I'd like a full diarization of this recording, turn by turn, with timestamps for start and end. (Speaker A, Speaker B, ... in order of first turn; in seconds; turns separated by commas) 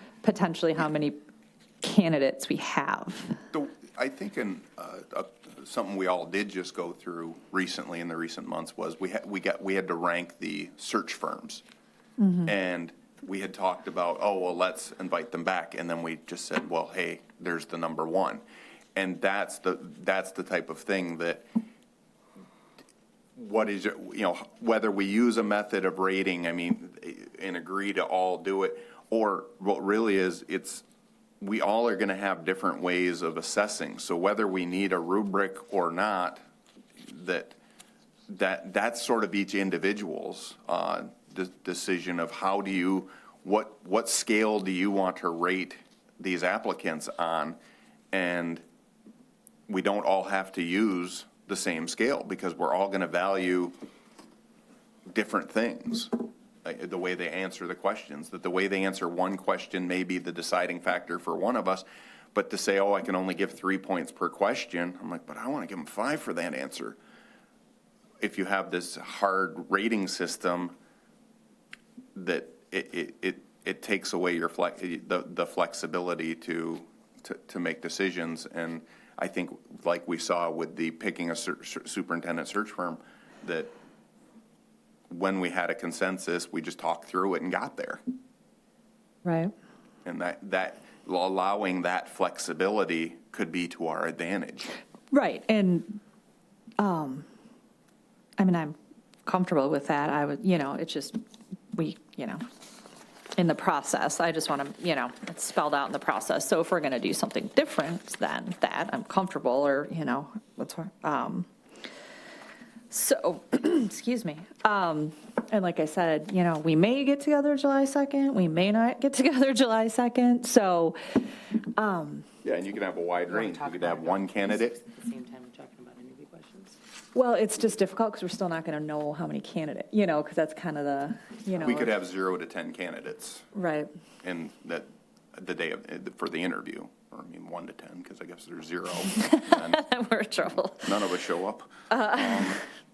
Speaker A: 0.2-1.2, Speaker A: 1.8-3.4, Speaker B: 3.5-11.6, Speaker A: 12.2-12.5, Speaker B: 12.5-18.4, Speaker B: 19.0-21.5, Speaker B: 23.4-30.8, Speaker B: 31.4-36.4, Speaker B: 37.0-37.6, Speaker B: 38.3-47.6, Speaker B: 48.1-48.6, Speaker B: 49.7-53.7, Speaker B: 55.1-67.0, Speaker B: 68.2-70.8, Speaker B: 72.2-83.7, Speaker B: 85.1-88.0, Speaker A: 89.2-89.5, Speaker B: 90.0-94.7, Speaker A: 95.1-96.0, Speaker A: 96.8-97.3, Speaker A: 98.4-101.2, Speaker A: 101.7-102.5, Speaker A: 103.4-111.5, Speaker A: 112.9-122.2, Speaker B: 122.4-124.8, Speaker C: 123.3-126.8, Speaker A: 127.2-131.9, Speaker B: 131.5-133.5, Speaker A: 133.6-133.9, Speaker B: 134.2-139.8, Speaker A: 139.2-140.9, Speaker B: 140.8-142.6, Speaker A: 141.9-142.6